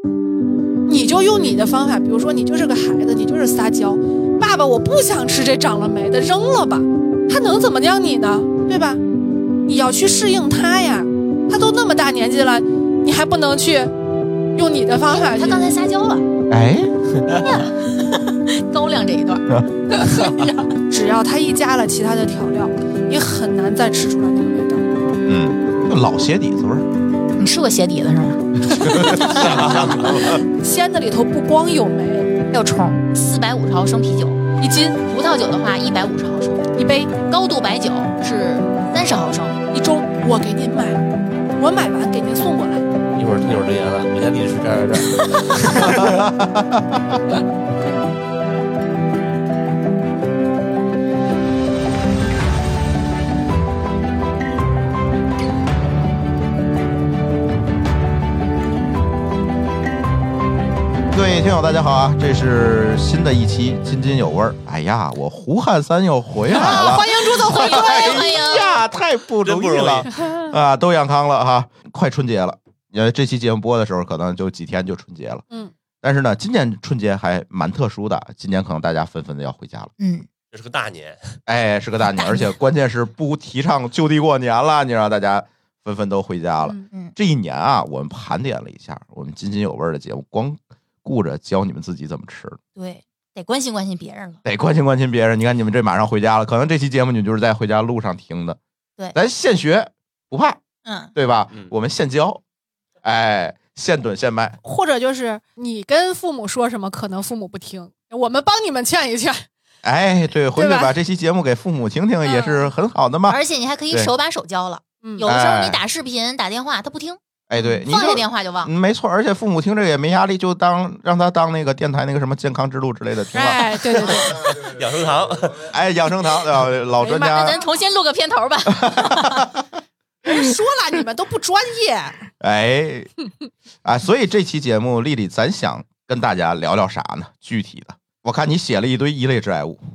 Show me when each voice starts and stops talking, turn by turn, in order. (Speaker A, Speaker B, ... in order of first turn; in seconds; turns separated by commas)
Speaker A: 0.9-9.0, Speaker A: 9.7-13.9, Speaker A: 14.6-15.7, Speaker B: 15.1-16.3, Speaker C: 16.5-16.9, Speaker B: 17.3-20.7, Speaker A: 20.9-24.9, Speaker C: 25.3-26.9, Speaker B: 27.4-29.4, Speaker C: 28.7-30.4, Speaker A: 28.8-32.3, Speaker D: 29.3-30.1, Speaker B: 32.5-34.4, Speaker A: 34.6-35.0, Speaker B: 35.1-36.7, Speaker A: 36.8-37.1, Speaker B: 37.3-39.5, Speaker A: 39.7-41.0, Speaker A: 41.6-42.9, Speaker D: 43.1-46.1, Speaker C: 45.8-46.8, Speaker C: 61.1-75.4, Speaker A: 66.5-68.4, Speaker B: 66.6-68.8, Speaker D: 69.4-70.1, Speaker C: 76.0-79.9, Speaker B: 80.0-80.3, Speaker D: 80.5-81.4, Speaker C: 81.5-92.6, Speaker B: 82.1-82.5, Speaker A: 86.6-86.9, Speaker B: 92.8-94.4, Speaker C: 94.5-98.6, Speaker C: 99.2-100.6, Speaker B: 100.8-101.1, Speaker C: 101.2-102.4, Speaker C: 103.0-104.6, Speaker A: 104.6-109.5, Speaker C: 109.8-114.1, Speaker A: 110.5-110.9, Speaker A: 112.2-112.7, Speaker B: 113.3-117.2, Speaker A: 115.0-115.3, Speaker C: 115.2-115.8, Speaker C: 117.5-124.3, Speaker A: 117.6-117.8, Speaker B: 117.8-118.7, Speaker A: 123.3-124.4, Speaker D: 124.1-125.7, Speaker C: 125.7-127.6, Speaker B: 127.0-129.5, Speaker C: 128.8-129.7, Speaker A: 130.2-132.3, Speaker C: 132.4-133.1, Speaker C: 133.8-139.8